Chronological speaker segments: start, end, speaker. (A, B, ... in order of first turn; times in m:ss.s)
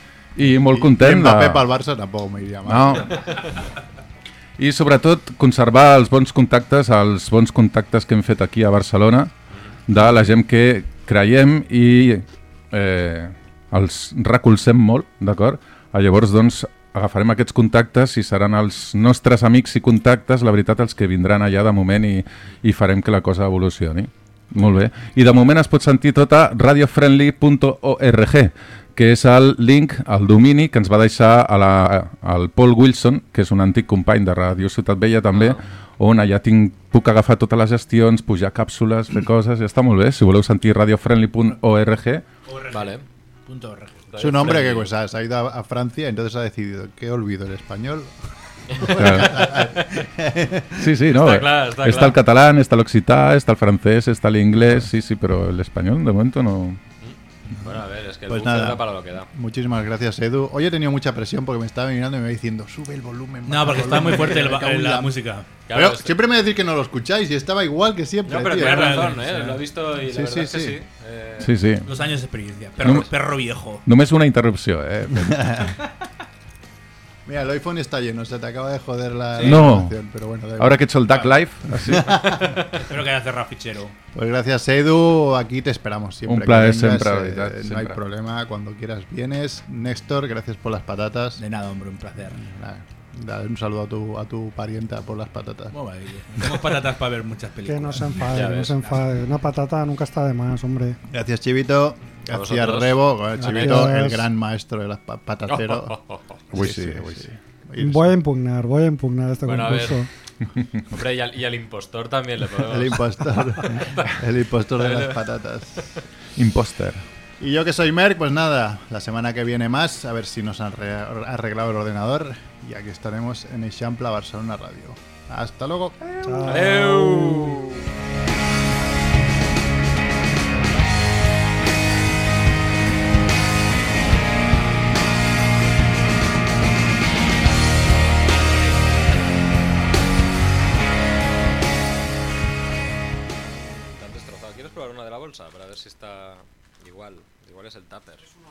0:00.4-0:01.6 A
0:00.5-0:03.3 B
0:02.6-0:03.2 A
0:04.6-0:09.3 A
0:09.9-0:42.2 A
0:35.3-0:35.6 C
0:42.4-0:44.4 D
0:42.7-0:43.0 C
0:44.1-0:44.9 C
0:44.2-0:48.2 B
0:48.7-0:50.9 B
0:48.7-0:49.7 C
0:48.8-0:49.5 A
0:50.8-0:56.8 A
0:51.1-0:52.2 C
0:57.0-0:59.3 C
0:58.3-1:05.2 B
1:03.4-1:05.5 D
1:05.7-1:06.2 C
1:05.7-1:09.2 B
1:08.2-1:11.5 C
1:08.5-1:09.6 D
1:10.1-1:10.8 B
1:11.4-1:11.9 A
1:11.8-1:13.8 D
1:12.8-1:13.1 A
1:13.8-1:15.7 A
1:15.2-1:15.7 B
1:17.2-1:22.9 B
1:19.4-1:19.7 D
1:19.4-1:19.9 A
1:20.6-1:22.2 A
1:22.8-1:24.0 D
1:24.1-1:31.4 B
1:26.2-1:28.0 A
1:31.4-1:32.4 D
1:32.3-1:35.7 B
1:35.7-1:38.3 D
1:37.7-1:41.0 E
1:38.3-1:38.7 C
1:41.1-1:46.0 B
1:42.3-1:43.9 C
1:43.4-1:44.3 E
1:45.5-1:46.4 C
1:46.5-1:47.4 A
1:46.5-1:48.1 B
1:47.8-1:50.1 E
1:49.5-1:50.0 C
1:50.8-1:54.2 C
1:52.6-1:55.9 B
1:54.8-1:55.2 C
1:56.4-1:57.0 A
1:57.4-2:06.1 B
2:06.2-2:07.6 E
2:06.4-2:07.8 C
2:23.4-2:28.3 C